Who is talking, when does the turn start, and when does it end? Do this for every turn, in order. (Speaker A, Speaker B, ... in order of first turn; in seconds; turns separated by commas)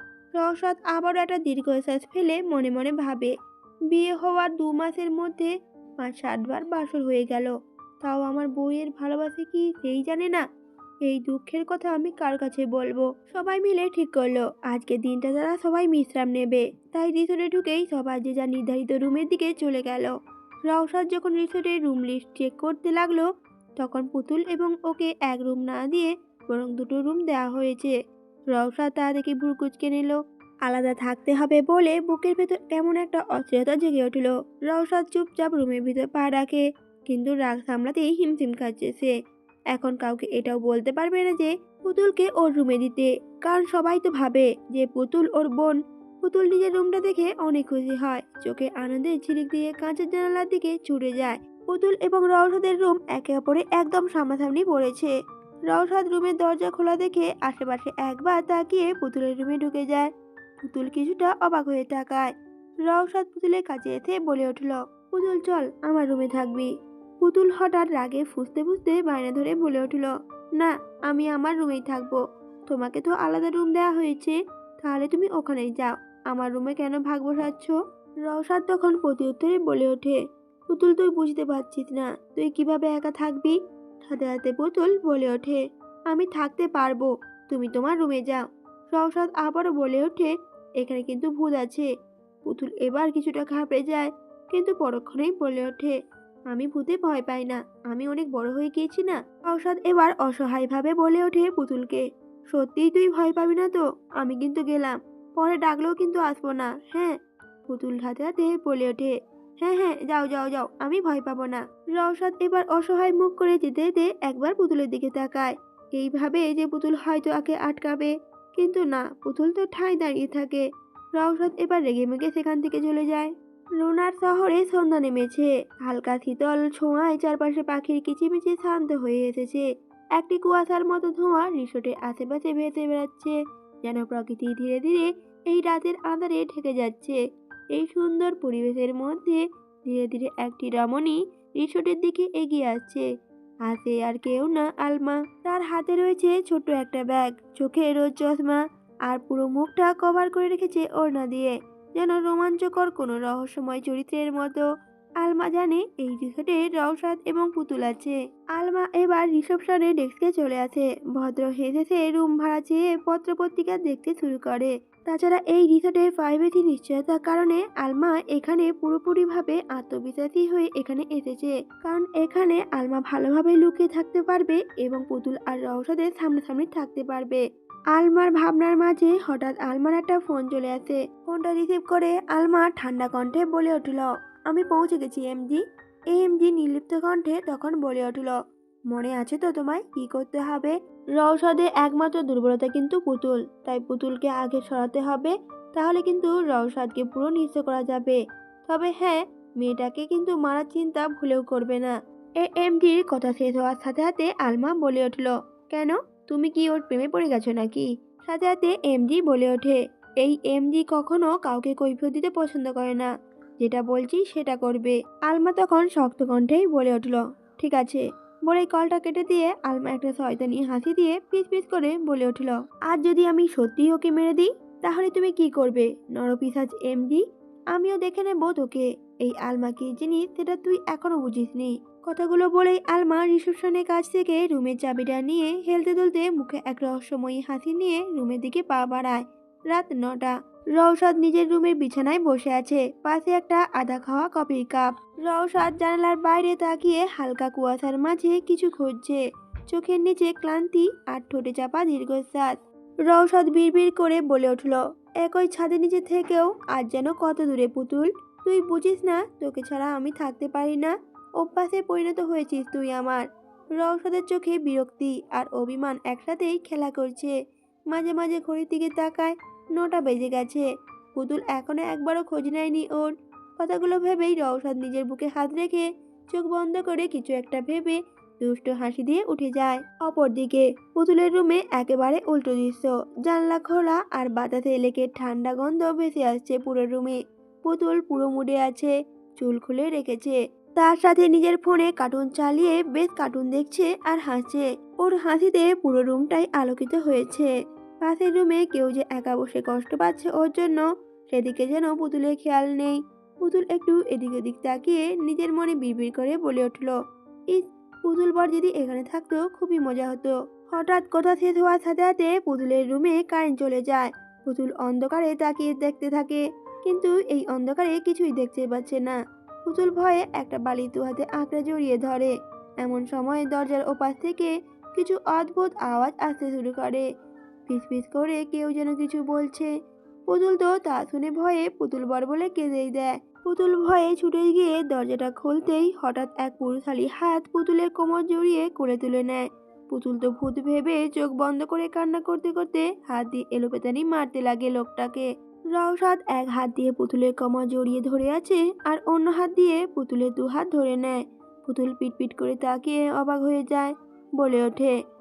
Speaker A: 0.4-3.3, Speaker A: 3.9-10.4, Speaker A: 11.1-20.1, Speaker A: 20.7-23.2, Speaker A: 23.8-27.9, Speaker A: 28.5-39.1, Speaker A: 39.7-55.1, Speaker A: 55.7-60.1, Speaker A: 60.6-62.3, Speaker A: 62.9-77.7, Speaker A: 78.3-91.9, Speaker A: 92.5-95.9, Speaker A: 96.5-107.2, Speaker A: 107.7-120.7, Speaker A: 121.2-129.7, Speaker A: 130.2-137.2, Speaker A: 137.7-143.1, Speaker A: 143.7-154.7, Speaker A: 155.2-177.4, Speaker A: 177.9-188.3, Speaker A: 188.9-213.1, Speaker A: 213.6-252.6, Speaker A: 253.1-263.2, Speaker A: 263.8-267.3, Speaker A: 267.9-297.5, Speaker A: 298.0-306.9, Speaker A: 307.5-319.1, Speaker A: 319.7-327.0, Speaker A: 327.7-329.7, Speaker A: 330.3-354.9